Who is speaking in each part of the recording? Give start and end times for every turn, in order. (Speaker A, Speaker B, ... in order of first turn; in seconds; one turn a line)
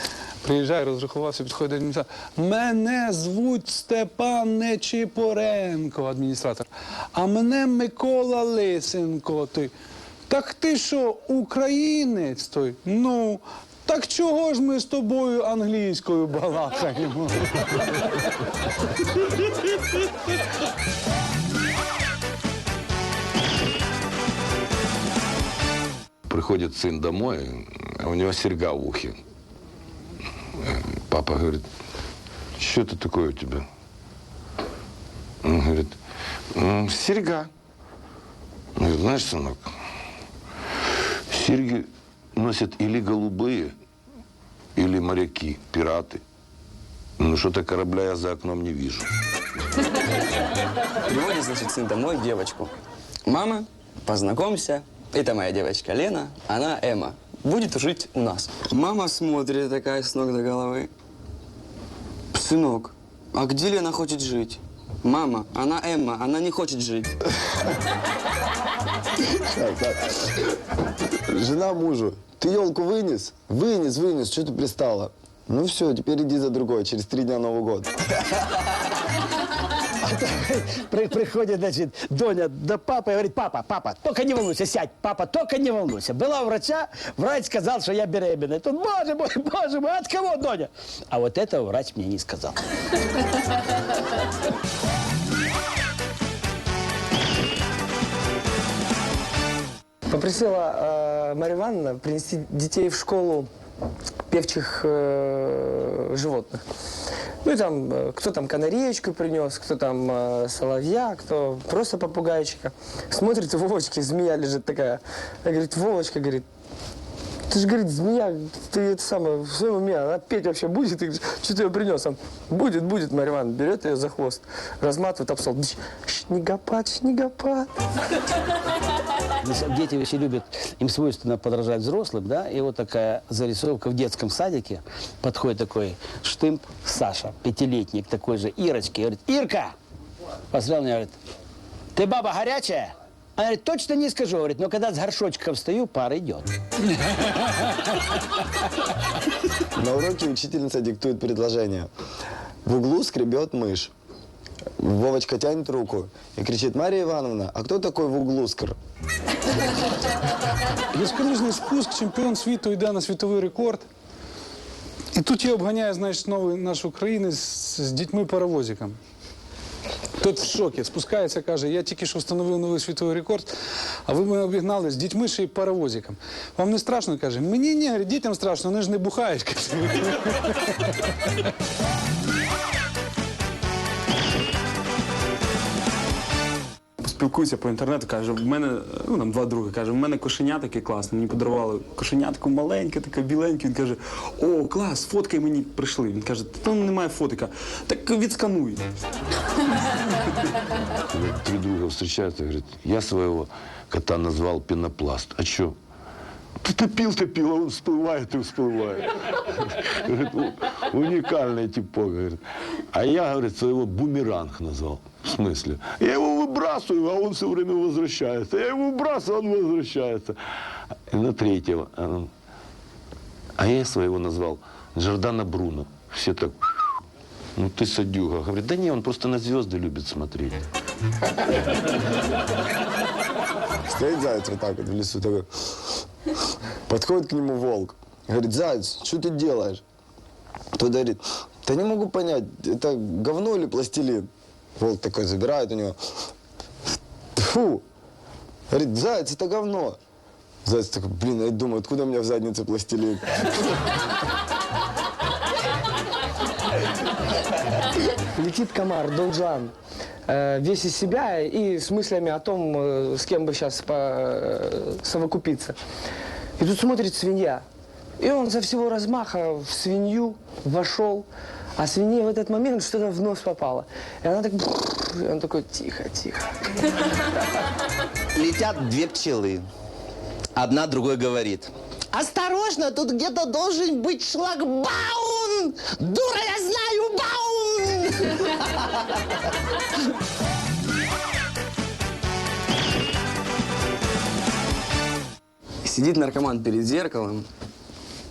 Speaker A: 0.4-9.7
Speaker A: 10.3-17.5
Speaker B: 26.3-29.1
Speaker B: 30.6-31.7
Speaker B: 32.6-33.6
Speaker B: 35.4-36.0
Speaker B: 36.5-37.5
Speaker B: 38.8-39.7
Speaker B: 41.3-43.7
Speaker B: 44.8-46.2
Speaker B: 47.2-49.1
Speaker C: 51.1-52.7
Speaker C: 53.2-60.9
Speaker C: 62.3-67.1
Speaker D: 69.4-70.2
Speaker D: 71.3-78.0
Speaker E: 80.0-92.6
Speaker F: 100.1-103.5
Speaker F: 104.3-106.6
Speaker F: 107.4-116.4
Speaker F: 117.5-127.7
Speaker E: 129.4-139.7
Speaker E: 140.5-141.1
Speaker E: 141.9-146.5
Speaker D: 149.7-151.9
Speaker D: 152.6-153.9
Speaker D: 154.8-158.8
Speaker A: 160.9-163.8
Speaker A: 165.1-169.0
Speaker A: 170.2-173.5
Speaker A: 174.0-180.6
Speaker G: 187.1-198.8
Speaker B: 201.1-205.8
Speaker B: 206.6-212.4
Speaker B: 212.9-220.3
Speaker B: 221.1-222.3
Speaker B: 223.6-226.5
Speaker B: 227.6-230.6
Speaker D: 233.9-235.5
Speaker D: 236.9-239.8
Speaker D: 240.7-246.0
Speaker D: 247.3-247.8
Speaker D: 248.7-250.0
Speaker D: 250.6-253.4
Speaker F: 258.3-259.7
Speaker F: 260.3-265.8
Speaker F: 266.6-267.6
Speaker F: 268.2-276.5
Speaker H: 278.3-279.6
Speaker H: 280.5-288.1
Speaker C: 295.8-297.4